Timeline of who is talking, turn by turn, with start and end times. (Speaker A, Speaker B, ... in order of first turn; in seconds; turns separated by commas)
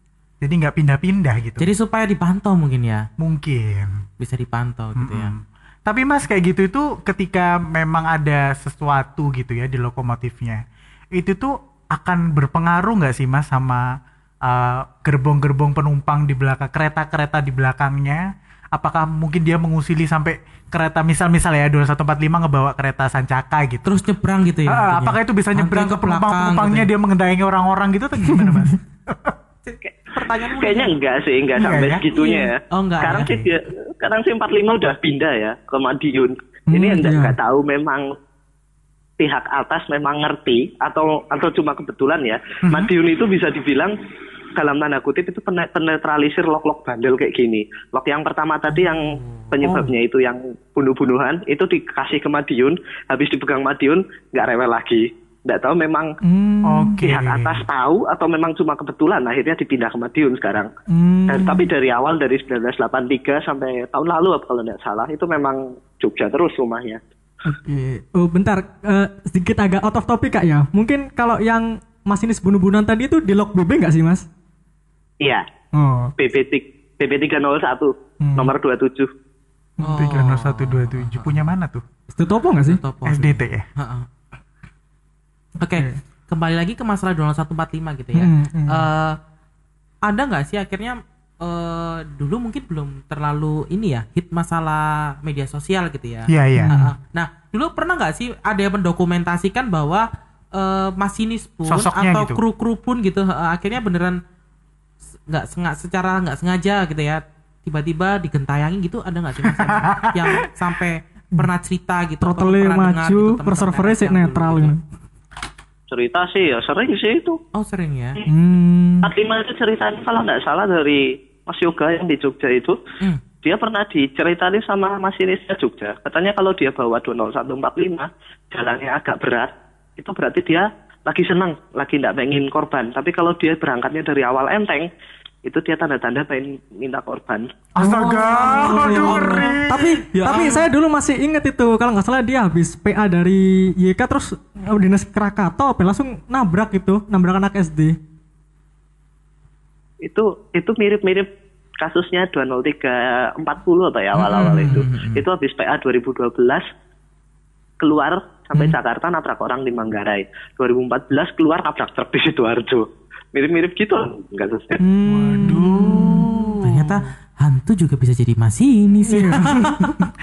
Speaker A: 0.4-1.7, Speaker B: 1.6-3.1, Speaker A: 3.2-4.0, Speaker B: 4.2-5.3, Speaker A: 5.0-10.6, Speaker A: 11.1-13.9, Speaker A: 14.4-23.9, Speaker B: 23.9-26.9, Speaker A: 24.7-29.3, Speaker C: 28.2-28.7, Speaker B: 29.6-31.0, Speaker D: 30.4-38.1, Speaker A: 31.6-32.0, Speaker B: 32.7-33.4, Speaker C: 36.7-37.3, Speaker D: 39.2-43.9, Speaker A: 42.6-42.9, Speaker D: 44.5-56.1, Speaker B: 49.2-49.5, Speaker A: 49.6-49.9, Speaker C: 56.2-57.0, Speaker A: 56.6-57.6, Speaker D: 57.0-60.7, Speaker C: 60.9-61.7, Speaker D: 61.3-67.0, Speaker C: 67.4-74.2, Speaker C: 75.7-76.1, Speaker D: 76.2-79.1, Speaker C: 78.2-78.5, Speaker B: 79.8-81.5, Speaker A: 79.9-81.8, Speaker C: 82.1-82.8, Speaker B: 82.6-84.1, Speaker A: 83.0-83.7, Speaker B: 85.6-89.2, Speaker C: 85.7-86.0, Speaker C: 88.1-88.9, Speaker B: 90.0-104.2, Speaker A: 96.3-96.7, Speaker C: 96.6-96.9, Speaker A: 101.7-102.4, Speaker B: 105.3-114.7, Speaker A: 109.5-110.5, Speaker C: 112.2-114.8, Speaker D: 115.9-117.4, Speaker B: 117.5-118.2, Speaker C: 118.3-119.1, Speaker D: 119.0-122.8, Speaker D: 123.4-134.9, Speaker D: 135.4-137.5, Speaker A: 137.8-140.0, Speaker C: 137.8-147.9, Speaker B: 138.4-139.5, Speaker B: 140.2-140.7, Speaker D: 150.0-151.3, Speaker D: 151.8-156.6, Speaker B: 154.2-155.2, Speaker D: 157.8-164.8, Speaker C: 164.8-166.2, Speaker A: 165.3-167.0, Speaker B: 166.6-170.0, Speaker C: 169.1-169.9